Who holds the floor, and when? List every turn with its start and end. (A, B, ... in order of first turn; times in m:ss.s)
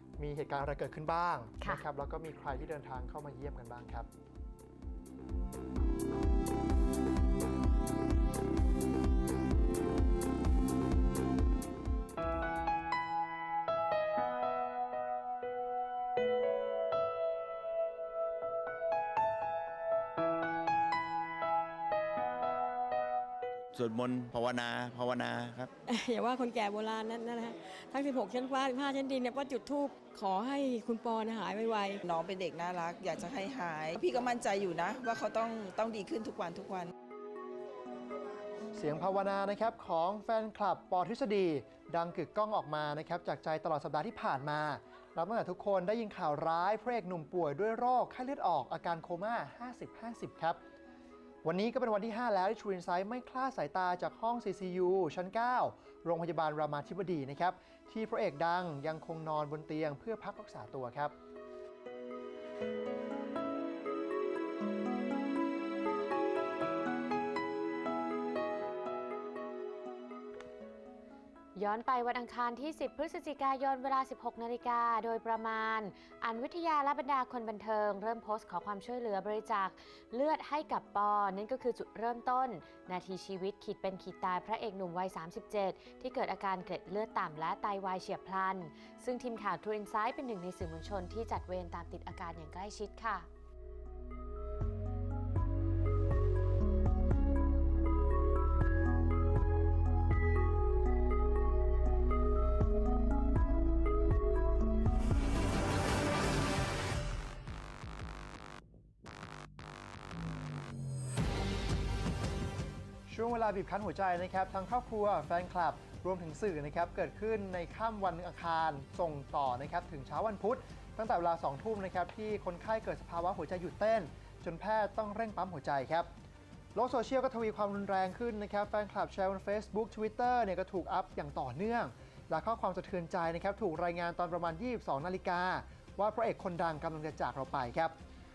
0:00.2-0:04.1 A
0:23.7-0:25.7 B
0:25.9-0:32.0 C
0:32.0-0:36.9 D
0:38.7-0:50.6 A
0:51.4-1:01.1 A
1:11.5-1:33.3 E
1:53.1-2:06.1 A
2:06.7-2:17.9 A